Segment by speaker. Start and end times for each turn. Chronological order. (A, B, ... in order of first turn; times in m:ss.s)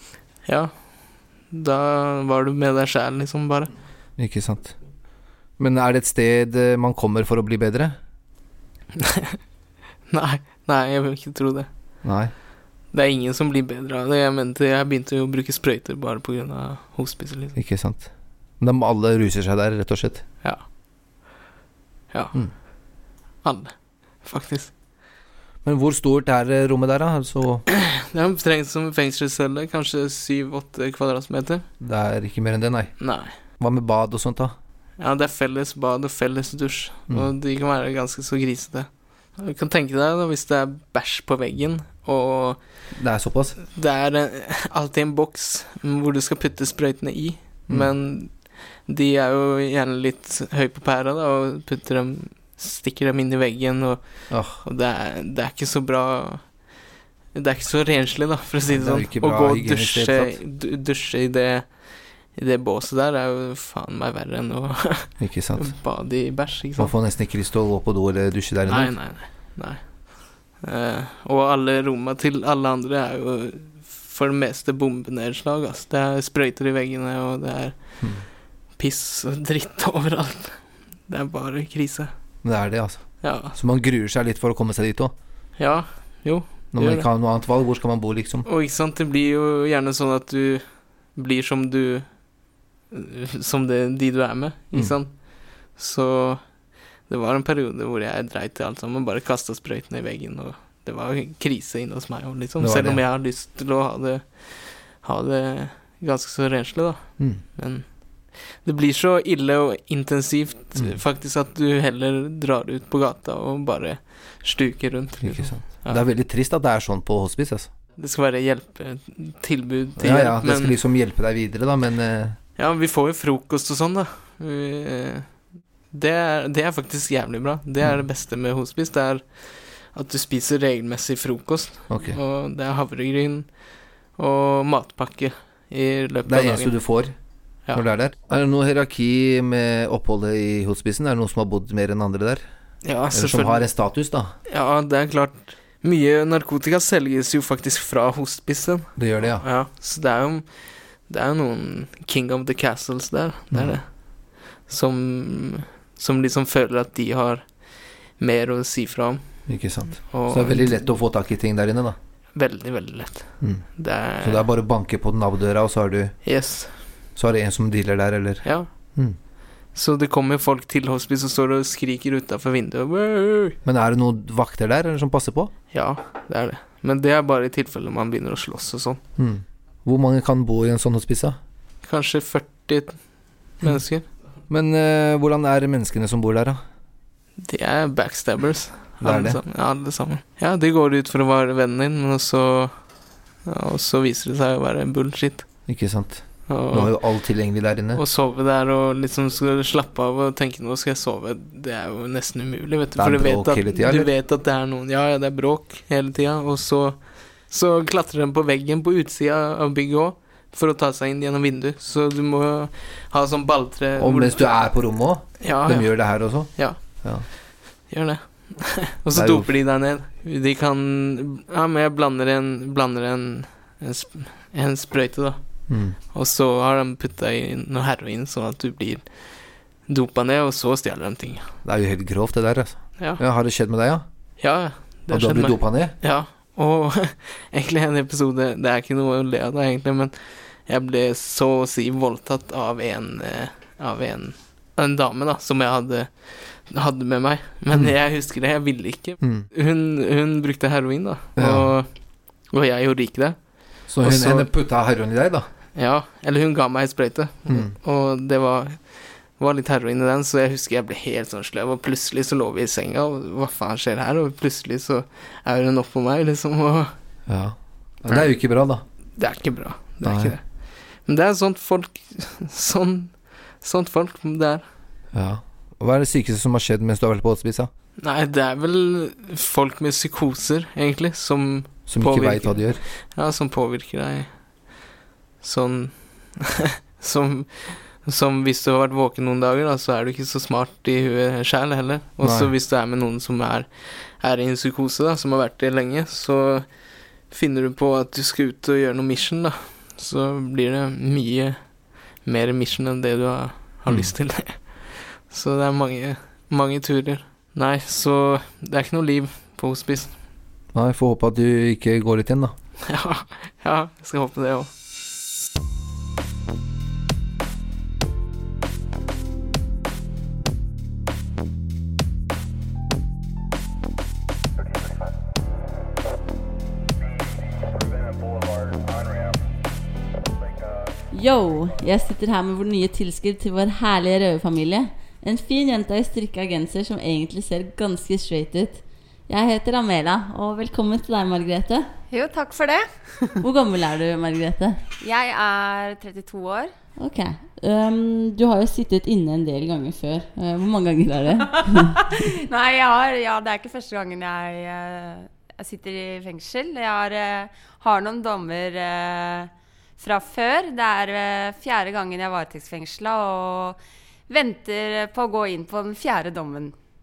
0:00.4-0:03.7 A
0:04.2-0:04.7 B
0:05.6-0:07.9 B
0:09.0-0:09.4 A
0:10.1-0:11.7 A
0:12.0-0:12.3 B
0:12.9-0:17.6 A
0:17.6-0:18.1 B
0:18.6-0:20.2 B
0:23.4-0:24.7 A
0:25.6-0:27.6 B
0:27.7-0:31.6 A
0:31.8-0:32.9 B
0:33.0-0:33.3 A
0:33.6-0:34.5 B
0:35.0-0:42.6 A
0:42.9-0:43.6 B
0:43.7-0:56.8 A
0:54.3-0:54.6 B
0:57.3-1:06.9 A
0:58.7-1:00.4 B
1:05.2-1:05.7 B
1:06.8-1:09.0 B
1:08.7-1:18.1 A
1:18.8-1:22.1 A
1:22.4-1:25.1 B
1:23.2-1:23.6 A
1:25.6-1:27.1 A
1:26.7-1:28.4 B
1:28.4-1:32.2 A
1:32.9-1:36.4 A
1:37.0-1:56.0 A
1:42.6-1:43.0 B
1:55.2-1:57.7 B
1:58.0-2:00.8 A
2:00.0-2:02.4 B
2:02.6-2:16.7 A
2:11.9-2:12.2 B
2:16.2-2:17.1 B
2:17.7-2:22.4 B
2:22.8-2:23.7 A
2:23.1-2:24.3 B
2:24.5-2:39.2 A
2:29.0-2:29.4 B
2:33.5-2:33.8 B
2:39.5-2:42.0 B
2:40.1-2:40.7 A
2:42.3-2:44.5 A
2:43.4-2:43.6 B
2:44.2-2:46.1 B
2:46.2-2:46.7 A
2:47.2-2:49.2 B
2:48.4-2:48.7 A
2:49.7-2:53.6 A
2:53.6-2:55.5 B
2:55.7-2:59.0 A
2:59.2-3:01.4 B
3:01.8-3:04.0 A
3:04.5-3:06.6 B
3:07.4-3:12.8 A
3:09.0-3:09.4 B
3:13.4-3:15.5 A
3:15.7-3:18.0 B
3:16.5-3:17.0 A
3:17.9-3:34.8 A
3:23.0-3:24.1 B
3:34.0-3:37.2 B
3:35.4-3:36.8 A
3:37.9-3:51.5 A
3:39.1-3:39.5 B
3:45.7-3:46.0 B
3:51.6-3:54.0 B
3:54.4-4:11.9 A
3:55.1-3:55.9 B
4:09.2-4:09.5 B
4:11.4-4:11.7 B
4:12.5-4:14.5 A
4:13.9-4:15.5 B
4:15.7-4:26.9 A
4:27.3-4:28.8 B
4:29.2-4:34.6 A
4:30.0-4:30.4 B
4:35.1-4:37.7 B
4:38.0-4:44.8 A
4:41.9-4:42.8 B
4:45.4-4:56.7 A
4:52.2-4:52.5 B
4:57.2-5:10.2 A
5:03.9-5:04.1 B
5:10.7-5:12.5 B
5:12.8-5:14.7 A
5:31.1-5:41.9 C
5:42.1-5:43.4 D
5:43.4-5:44.8 C
5:45.0-5:46.7 D
5:47.0-5:52.0 C
5:52.2-6:03.8 D
6:04.3-6:06.7 D